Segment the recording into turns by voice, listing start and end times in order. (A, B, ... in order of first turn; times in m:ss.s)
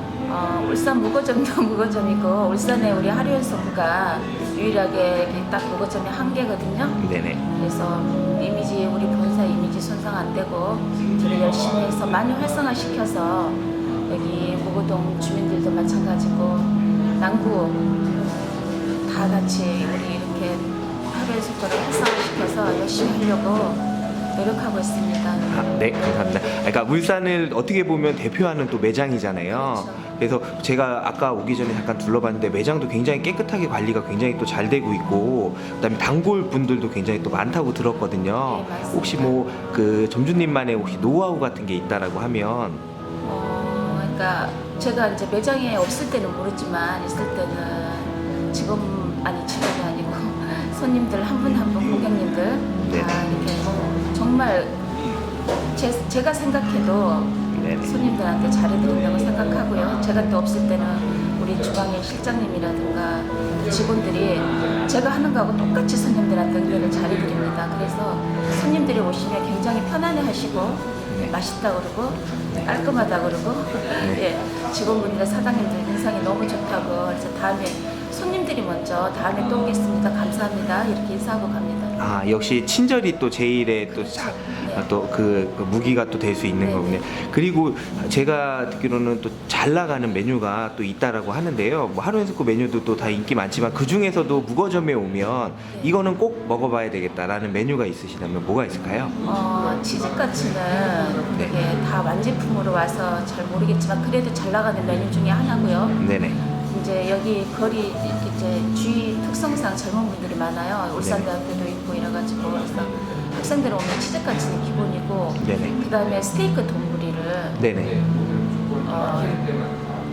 0:00.3-0:17.8 A
0:07.0-0:07.4 B
0:19.0-0:23.8 A
0:24.4-0:25.5 A
0:25.5-0:42.8 B
0:29.5-0:30.1 A
0:38.4-0:39.4 A
0:43.2-0:54.8 A
0:52.9-0:53.2 B
0:55.7-1:22.0 A
0:57.5-0:57.9 B
1:22.0-1:39.2 B
1:24.1-1:24.9 A
1:26.6-1:27.0 A
1:39.2-1:46.0 A
1:46.0-1:46.4 B
1:46.7-1:57.6 A
1:51.0-1:51.3 B
1:55.4-1:55.8 B
1:57.6-1:58.0 B
1:58.8-1:59.5 A